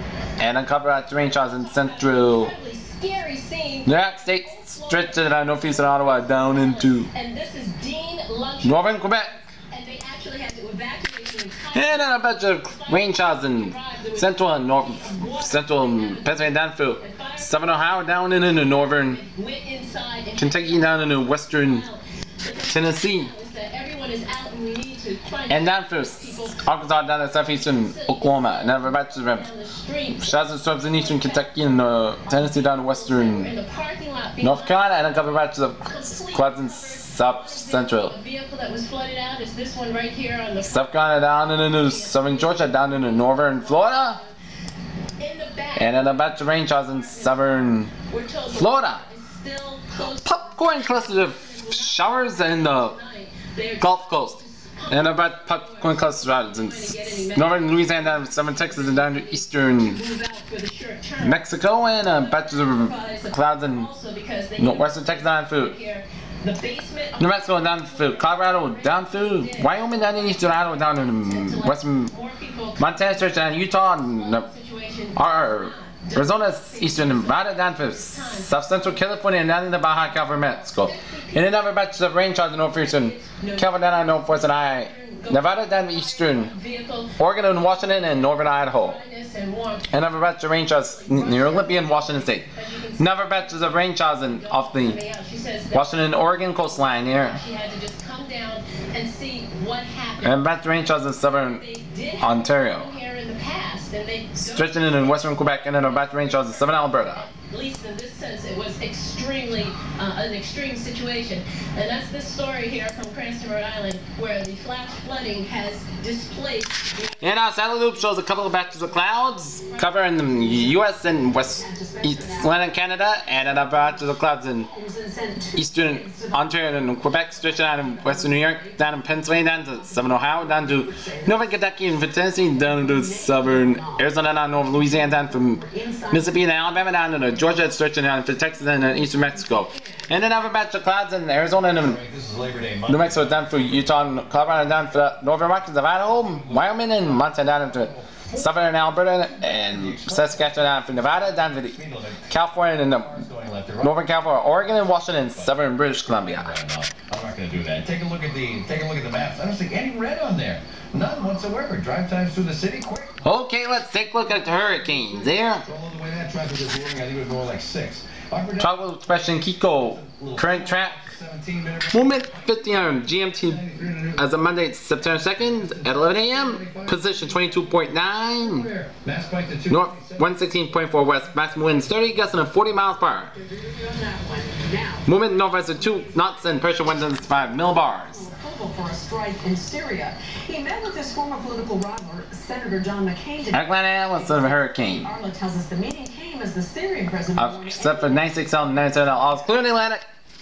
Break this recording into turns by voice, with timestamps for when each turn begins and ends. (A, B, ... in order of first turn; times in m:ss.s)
0:00.4-0:02.6 A
0:01.2-0:26.7 B
0:03.8-0:07.1 A
0:08.6-0:09.3 A
0:11.7-0:19.2 A
0:20.4-0:21.8 A
0:22.7-0:23.3 A
0:25.5-0:29.5 A
0:27.4-0:31.6 B
0:30.2-0:33.5 A
0:32.2-0:44.3 B
0:34.4-0:38.1 A
0:40.6-0:44.2 A
0:45.2-1:19.2 B
0:45.8-0:47.9 A
0:48.5-0:49.0 A
0:50.2-0:53.0 A
0:53.8-1:00.0 A
1:01.2-1:03.9 A
1:04.6-1:05.8 A
1:07.2-1:12.1 A
1:12.8-1:14.5 A
1:15.2-1:26.5 A
1:20.0-2:00.8 B
1:27.2-1:29.0 A
1:29.9-1:35.0 A
1:35.7-1:37.4 A
1:40.2-1:41.6 A
1:42.2-1:42.9 A
1:44.4-1:47.2 A
1:57.2-2:04.7 A
2:01.6-2:02.5 C
2:03.8-2:04.0 C
2:04.6-2:08.7 C
2:05.6-2:22.0 A
2:09.2-2:11.3 C
2:12.6-2:14.0 C
2:14.8-2:16.2 C
2:16.8-2:17.8 B
2:18.4-2:20.5 B
2:21.7-2:43.3 D
2:22.9-2:31.8 A
2:32.3-2:33.2 A
2:33.8-2:36.6 A
2:43.2-2:45.6 A
2:44.5-3:03.2 D
2:48.6-2:51.1 A
2:51.9-2:58.7 A
2:59.7-3:03.3 A
3:03.3-3:03.7 B
3:03.7-3:05.1 C
3:04.6-3:05.0 B
3:05.1-3:08.3 A
3:05.8-3:06.1 C
3:07.1-3:13.6 C
3:07.6-3:08.2 B
3:13.5-3:15.1 A
3:15.0-3:19.1 C
3:17.4-3:20.0 A